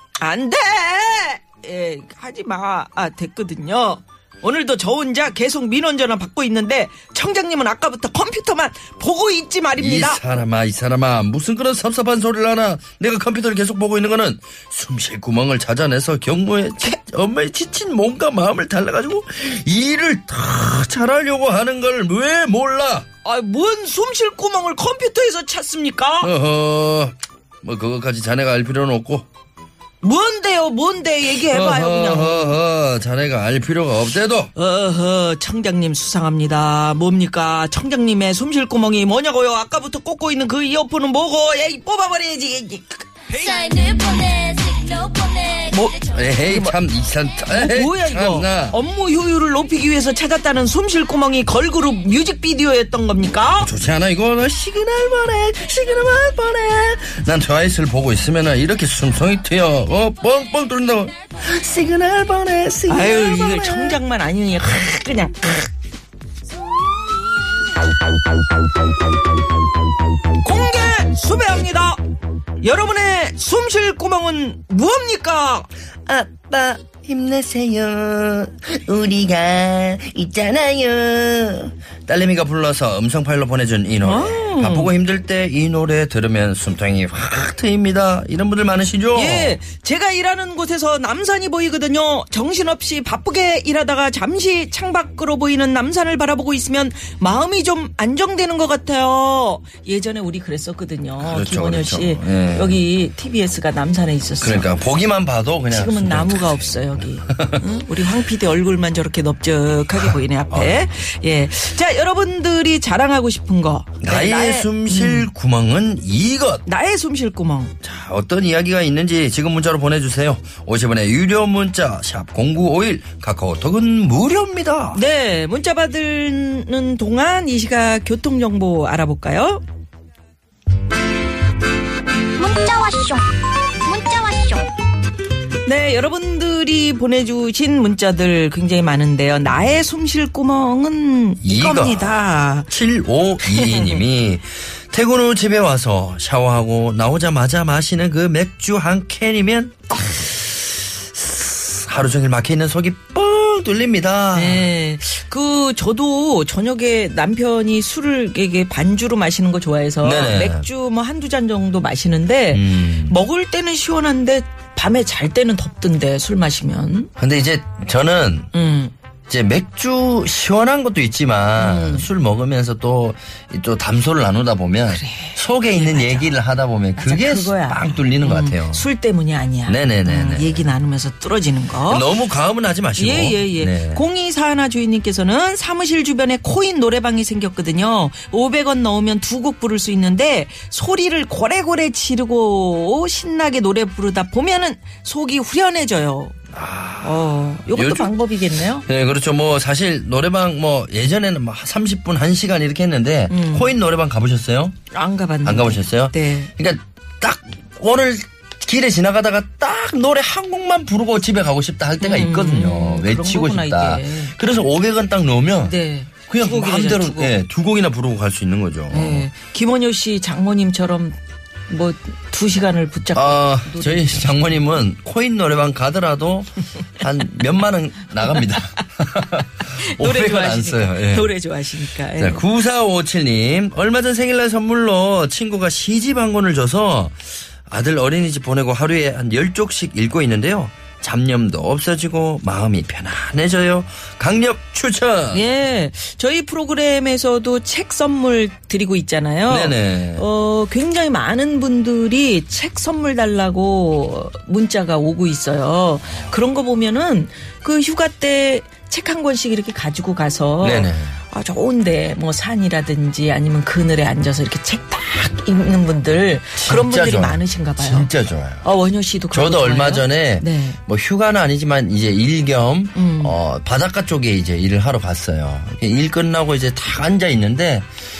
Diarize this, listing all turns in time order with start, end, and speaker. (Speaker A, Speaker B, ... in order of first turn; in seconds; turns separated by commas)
Speaker A: 0.2-10.2, Speaker B: 9.8-23.1, Speaker A: 23.2-26.3, Speaker B: 26.2-29.3, Speaker A: 30.0-32.6, Speaker B: 31.3-34.5, Speaker A: 34.5-46.8, Speaker B: 46.0-48.8, Speaker A: 47.5-53.7, Speaker B: 53.6-64.0, Speaker A: 62.9-65.7, Speaker A: 70.4-72.0, Speaker A: 72.6-75.7, Speaker B: 76.1-89.6, Speaker A: 84.0-84.9, Speaker A: 89.1-104.7, Speaker B: 101.2-102.8, Speaker B: 104.4-107.7, Speaker A: 105.7-115.3, Speaker B: 110.5-110.9, Speaker B: 114.0-116.7, Speaker A: 116.7-117.7, Speaker B: 117.8-125.0, Speaker A: 124.9-129.6, Speaker C: 132.4-134.7, Speaker A: 135.6-142.7, Speaker B: 141.4-154.7, Speaker A: 143.4-144.0, Speaker A: 154.3-167.1, Speaker B: 160.0-160.7, Speaker B: 162.5-163.2, Speaker B: 167.2-168.5, Speaker A: 168.5-168.9, Speaker B: 169.3-178.8, Speaker A: 171.6-172.1, Speaker A: 174.9-176.4, Speaker A: 177.0-182.1, Speaker B: 179.7-180.7, Speaker B: 181.9-184.0, Speaker A: 183.0-196.4, Speaker B: 196.5-204.8, Speaker A: 197.0-198.9, Speaker A: 203.3-203.7, Speaker A: 204.9-206.5, Speaker B: 205.4-215.8, Speaker A: 212.0-214.4, Speaker A: 215.6-217.4, Speaker B: 216.3-219.3, Speaker A: 218.9-224.3, Speaker B: 223.2-231.3, Speaker A: 229.7-232.5, Speaker B: 232.2-245.5, Speaker A: 245.3-268.1, Speaker B: 249.5-250.2, Speaker B: 260.6-261.2, Speaker B: 266.6-268.6, Speaker A: 268.6-270.8, Speaker B: 269.3-277.9, Speaker A: 273.0-273.4